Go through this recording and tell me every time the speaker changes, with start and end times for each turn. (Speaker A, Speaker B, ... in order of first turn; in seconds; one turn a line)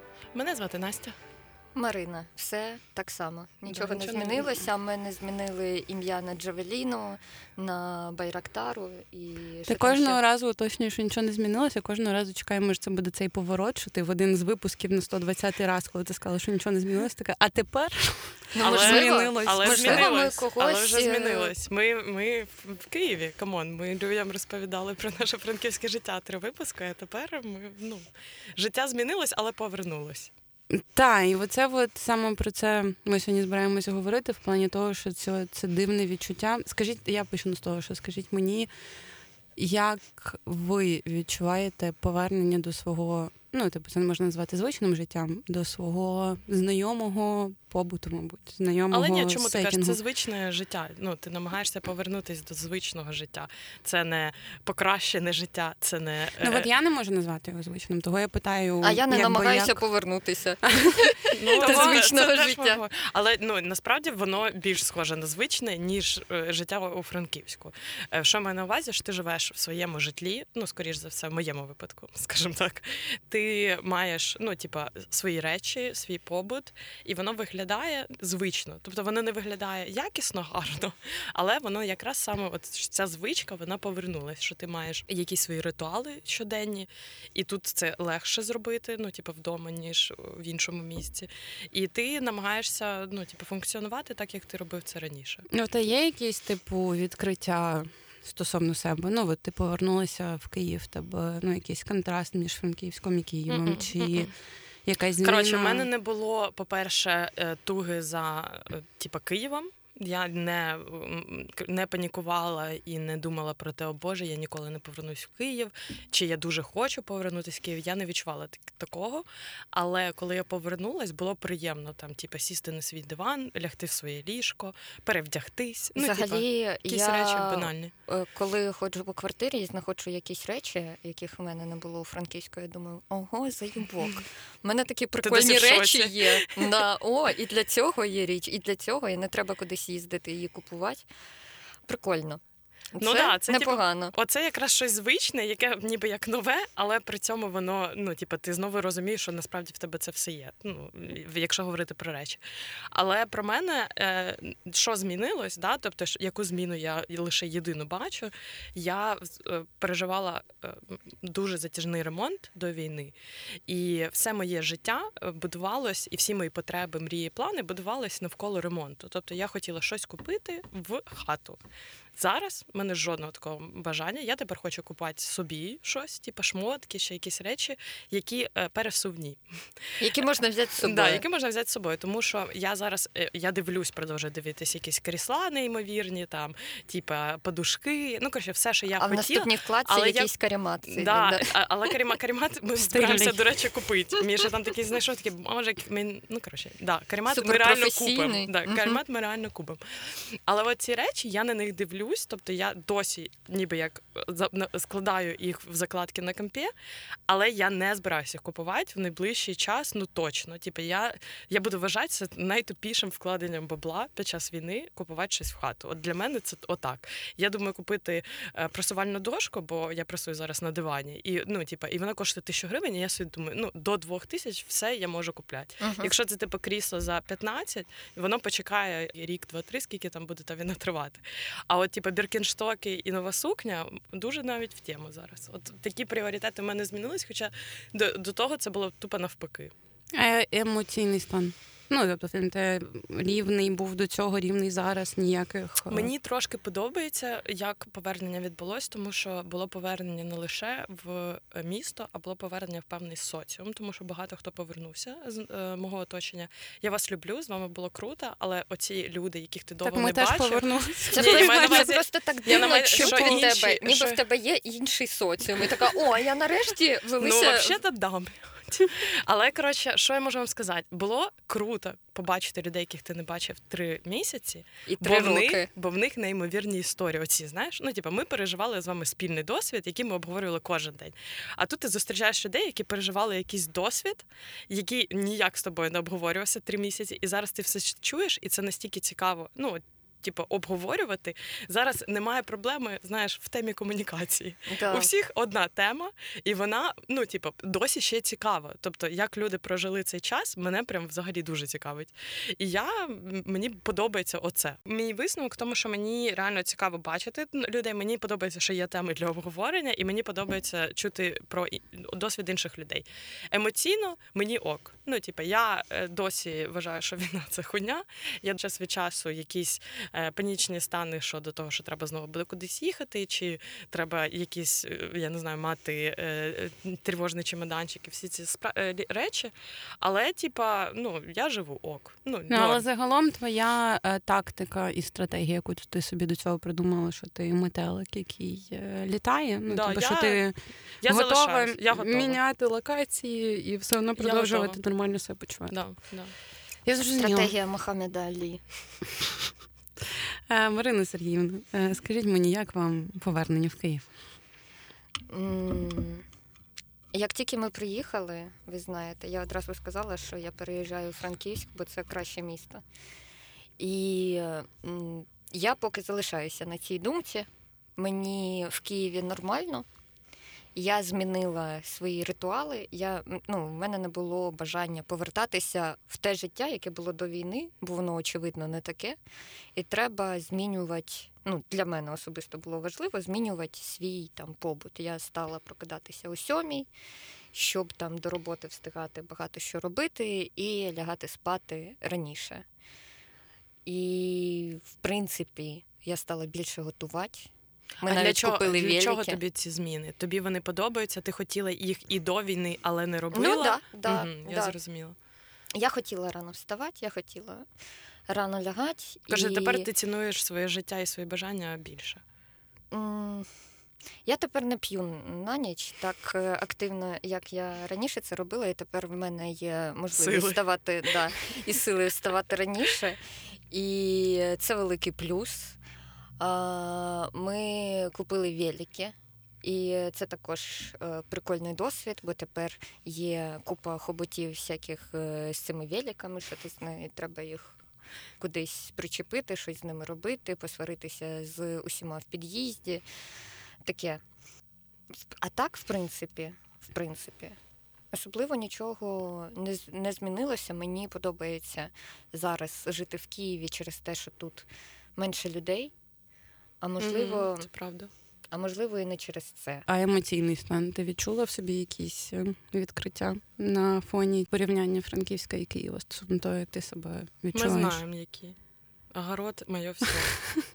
Speaker A: 0.3-1.2
Speaker B: 1.8-10.2
Speaker A: 3.7-4.5
Speaker C: 9.7-20.1
Speaker B: 18.5-21.5
Speaker A: 18.6-30.3
Speaker C: 30.7-38.7
Speaker C: 39.6-50.0
Speaker A: 48.9-56.7
Speaker C: 56.4-59.8
Speaker B: 58.8-62.8
Speaker C: 60.7-60.9
Speaker A: 61.3-95.5
Speaker C: 61.6-62.1
Speaker C: 95.5-104.3
Speaker A: 103.5-104.3
Speaker C: 104.9-105.9
Speaker A: 105.2-127.9
Speaker B: 126.0-141.1
Speaker A: 135.2-136.7
Speaker B: 141.9-142.4
Speaker B: 142.9-144.1
Speaker A: 143.0-152.4
Speaker A: 152.9-163.2
Speaker A: 163.7-171.6
Speaker A: 172.2-179.4
Speaker B: 180.0-181.2
Speaker A: 180.8-190.3
Speaker B: 189.0-191.5
Speaker A: 190.9-206.7
Speaker C: 192.9-193.4
Speaker B: 197.3-199.0
Speaker A: 207.3-239.7
Speaker B: 225.8-226.1
Speaker C: 240.1-246.1
Speaker A: 245.9-264.2
Speaker C: 259.8-262.0
Speaker B: 261.1-267.8
Speaker C: 262.5-263.5
Speaker A: 267.2-332.8
Speaker B: 274.9-275.7
Speaker B: 294.7-295.1
Speaker C: 332.5-345.8
Speaker A: 339.7-340.5
Speaker A: 341.0-342.4
Speaker A: 344.2-344.8
Speaker A: 345.7-346.3
Speaker C: 346.9-347.5
Speaker B: 347.2-348.6
Speaker C: 350.5-354.1
Speaker B: 355.3-356.2
Speaker B: 357.1-362.8
Speaker B: 363.8-369.9
Speaker B: 370.8-379.2
Speaker B: 379.8-386.9
Speaker B: 387.5-392.6
Speaker B: 393.9-397.5
Speaker B: 398.0-399.4
Speaker A: 398.1-405.2
Speaker B: 403.3-404.8
Speaker B: 405.8-407.7
Speaker B: 408.3-409.9
Speaker A: 409.3-412.2
Speaker B: 412.9-413.5
Speaker B: 414.3-425.8
Speaker A: 420.1-420.6
Speaker B: 426.4-437.8
Speaker B: 438.4-443.0
Speaker B: 443.8-444.2
Speaker B: 445.2-447.6
Speaker B: 448.1-455.9
Speaker B: 456.8-457.7
Speaker A: 457.0-458.1
Speaker B: 458.5-459.9
Speaker C: 459.9-468.0
Speaker A: 467.5-468.6
Speaker A: 469.1-470.4